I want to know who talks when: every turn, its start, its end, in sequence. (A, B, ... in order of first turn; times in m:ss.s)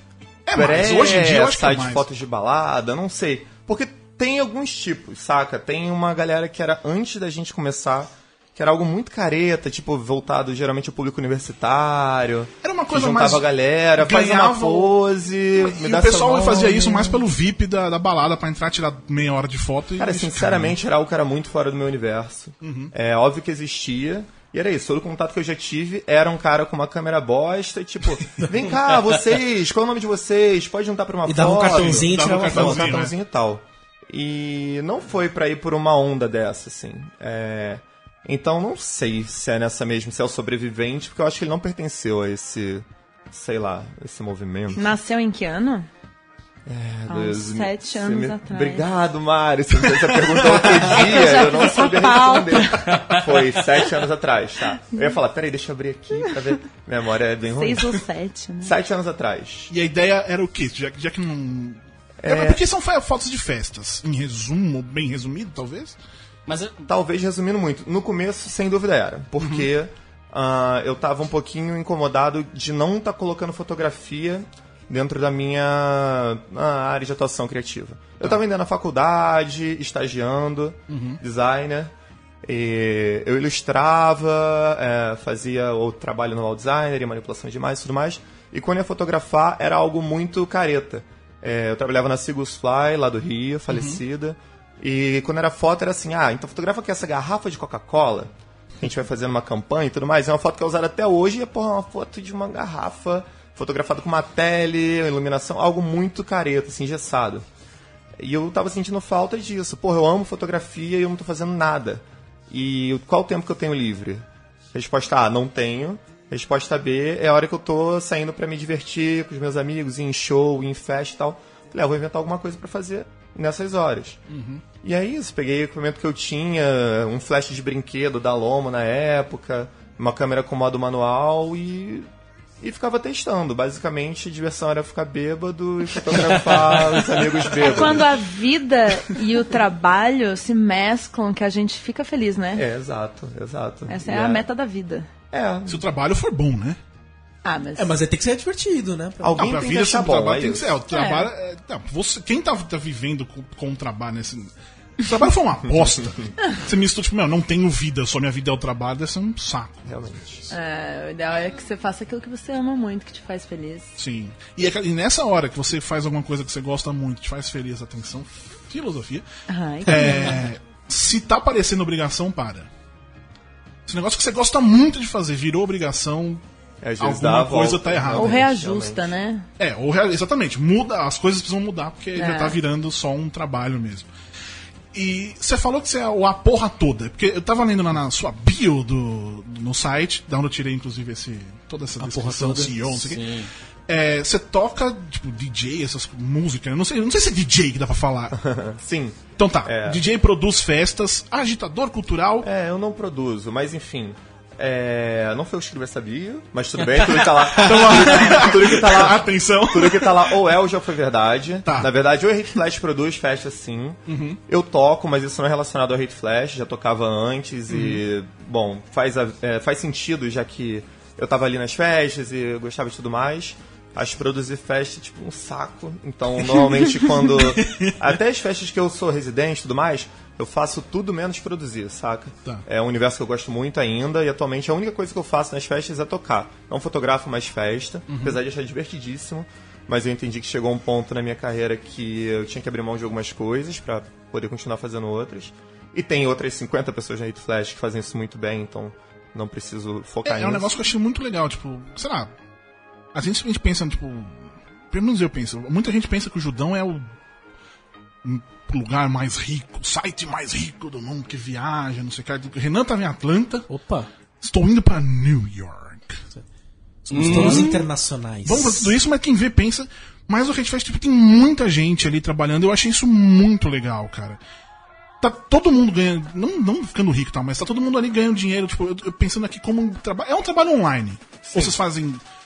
0:00.5-0:02.1 A
0:00.5-0:17.2 B
0:12.6-0:15.0 A
0:15.6-0:20.8 A
0:20.0-0:44.9 B
0:22.6-0:22.9 A
0:31.2-0:33.1 C
0:31.6-0:33.1 A
0:44.8-0:45.9 D
0:46.7-0:58.0 B
0:47.1-0:48.8 D
0:51.0-0:52.8 D
0:52.9-0:53.4 E
0:57.6-0:58.8 D
0:58.6-0:59.7 B
0:59.7-1:06.0 A
1:02.2-1:02.6 B
1:06.5-1:06.8 E
1:06.9-1:21.9 B
1:09.4-1:09.7 A
1:20.9-1:21.2 A
1:22.4-1:47.5 B
1:33.7-1:34.0 A
1:48.2-2:04.2 B
2:04.3-2:04.6 A
2:04.8-2:12.1 B
2:12.6-2:18.1 B
2:16.4-2:17.3 E
2:17.6-2:22.6 D
2:22.5-2:24.5 B
2:23.9-2:25.1 D
2:25.3-2:25.9 B
2:25.7-2:26.8 A
2:27.4-2:28.0 D
2:27.8-2:29.5 C
2:29.2-2:30.8 B
2:29.4-2:39.9 A
2:30.9-2:31.3 D
2:39.9-2:40.5 B
2:40.5-2:43.9 D
2:44.0-2:49.2 A
2:49.5-2:50.5 D
2:49.8-2:52.7 A
2:53.9-2:56.4 A
2:56.8-2:59.1 B
2:57.0-2:58.5 A
2:58.1-2:59.5 D
2:59.6-3:04.1 A
3:02.2-3:02.6 D
3:04.9-3:13.2 A
3:12.0-3:13.1 C
3:13.0-3:13.5 E
3:13.9-3:18.4 A
3:18.4-3:20.1 B
3:19.4-3:22.5 A
3:22.4-4:10.8 B
3:27.3-3:30.3 A
3:34.1-3:34.4 A
3:37.7-3:38.0 A
3:47.3-3:48.0 A
3:58.1-3:58.4 A
4:10.2-4:12.3 A
4:13.1-4:17.1 A
4:18.2-4:23.7 A
4:23.7-4:24.1 C
4:24.4-4:26.2 A
4:27.1-4:27.9 A
4:27.1-4:27.8 E
4:27.1-4:28.9 C
4:28.4-4:34.4 A
4:35.2-4:42.2 A
4:41.5-4:41.8 B